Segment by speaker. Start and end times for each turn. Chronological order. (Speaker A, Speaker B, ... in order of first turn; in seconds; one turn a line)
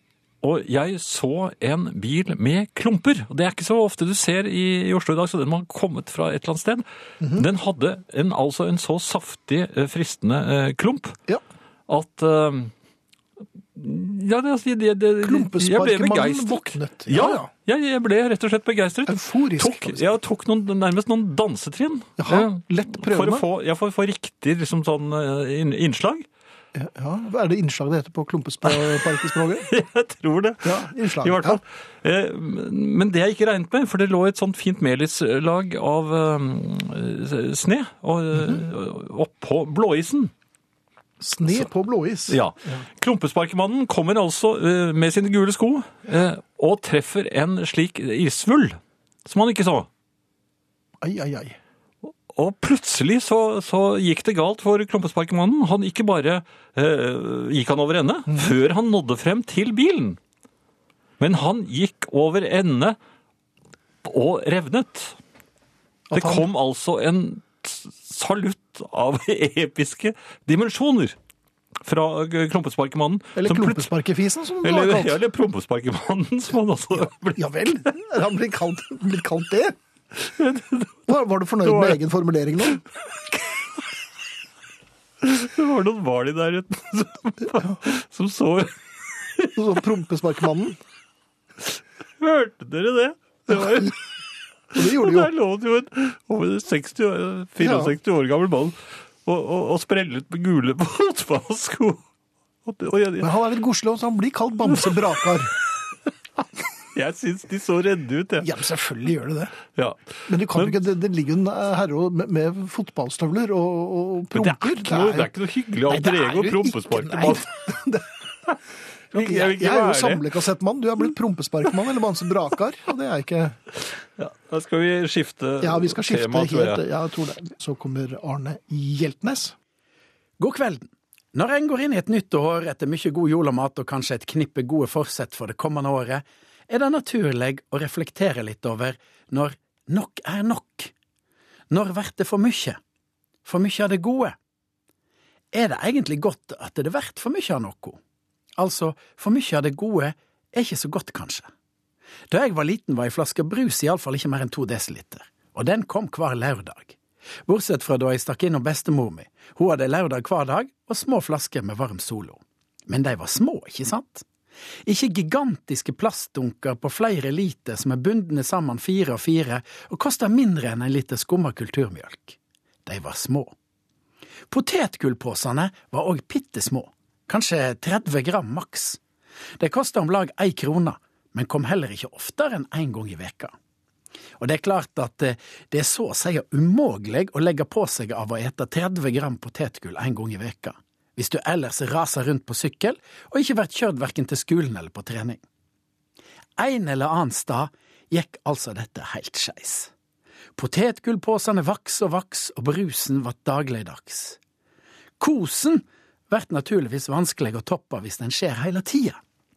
Speaker A: 0.4-11.2
Speaker B: 7.2-7.5
Speaker A: 11.9-12.7
Speaker A: 13.7-26.2
Speaker B: 15.2-17.5
Speaker B: 19.1-20.1
Speaker B: 22.2-23.4
Speaker B: 26.7-29.7
Speaker A: 28.6-40.3
Speaker B: 30.6-31.6
Speaker B: 41.2-42.9
Speaker A: 42.3-49.9
Speaker B: 51.0-51.6
Speaker A: 52.0-60.2
Speaker A: 61.2-63.0
Speaker A: 64.0-65.2
Speaker B: 66.1-66.5
Speaker A: 66.1-71.2
Speaker A: 71.8-73.9
Speaker B: 73.3-75.2
Speaker A: 74.6-77.5
Speaker B: 77.4-79.8
Speaker A: 80.2-81.1
Speaker B: 81.1-82.8
Speaker A: 81.6-82.0
Speaker A: 82.8-83.7
Speaker A: 85.2-89.6
Speaker B: 89.5-90.8
Speaker A: 92.2-94.0
Speaker B: 93.5-93.9
Speaker B: 94.7-95.3
Speaker A: 94.7-102.0
Speaker B: 97.6-97.9
Speaker A: 102.6-103.3
Speaker B: 103.2-105.5
Speaker A: 104.7-105.0
Speaker A: 106.9-108.5
Speaker B: 108.4-109.6
Speaker A: 109.7-110.8
Speaker B: 110.3-115.3
Speaker A: 114.3-117.5
Speaker B: 115.9-118.1
Speaker A: 119.1-120.3
Speaker B: 119.1-123.6
Speaker A: 124.2-126.8
Speaker B: 125.6-129.5
Speaker C: 130.4-140.9
Speaker C: 141.7-142.8
Speaker C: 143.4-144.3
Speaker C: 145.5-148.0
Speaker C: 148.6-151.5
Speaker C: 152.3-156.9
Speaker C: 157.5-164.2
Speaker C: 164.8-173.5
Speaker C: 174.5-179.0
Speaker C: 179.6-183.5
Speaker C: 184.4-195.4
Speaker C: 196.6-199.9
Speaker C: 200.6-204.4
Speaker C: 205.2-209.2